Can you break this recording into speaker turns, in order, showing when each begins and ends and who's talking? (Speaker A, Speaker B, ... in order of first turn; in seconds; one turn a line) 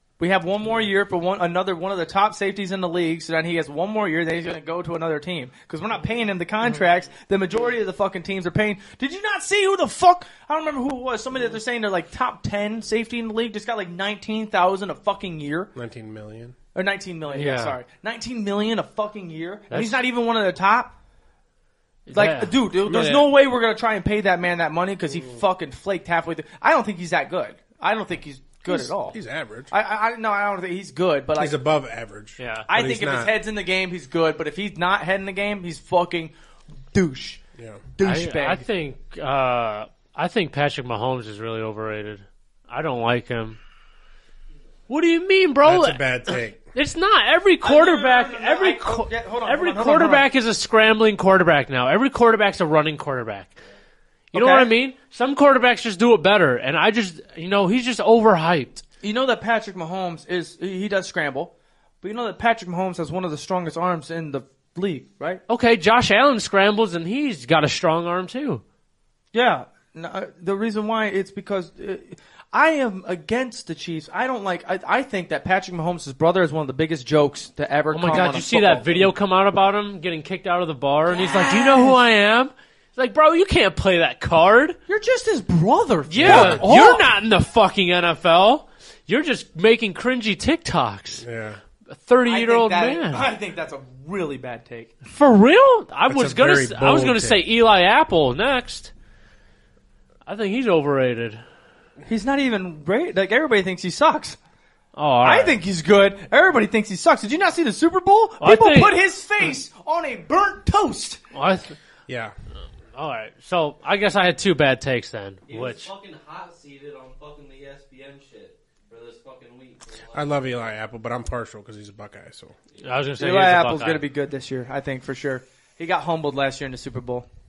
Speaker A: 0.2-15.7
Speaker B: 15.7-16.6
Speaker A: 16.7-20.9
Speaker C: 17.3-17.8
Speaker C: 19.7-20.0
Speaker C: 22.1-23.3
Speaker A: 22.1-29.2
Speaker B: 29.1-29.7
Speaker A: 29.7-31.6
Speaker B: 31.4-33.3
Speaker C: 32.4-32.7
Speaker A: 32.7-36.3
Speaker A: 36.9-38.6
Speaker B: 37.5-37.9
Speaker C: 38.0-43.6
Speaker C: 44.9-53.6
Speaker B: 45.6-46.7
Speaker A: 47.6-50.3
Speaker C: 54.3-58.8
Speaker A: 54.3-54.7
Speaker A: 59.0-65.4
Speaker C: 65.5-68.6
Speaker A: 69.3-79.1
Speaker C: 77.9-84.8
Speaker A: 81.1-82.0
Speaker A: 84.9-87.1
Speaker C: 86.0-91.2
Speaker B: 91.2-91.6
Speaker C: 91.9-93.3
Speaker A: 92.2-95.0
Speaker C: 95.0-98.9
Speaker B: 96.1-97.5
Speaker C: 100.2-101.4
Speaker A: 102.1-104.4
Speaker C: 104.9-105.6
Speaker A: 105.2-111.2
Speaker C: 108.4-109.0
Speaker C: 111.3-111.7
Speaker B: 112.1-112.3
Speaker C: 112.9-115.9
Speaker D: 115.5-120.5
Speaker B: 120.1-122.6
Speaker C: 122.8-124.0
Speaker A: 123.2-127.3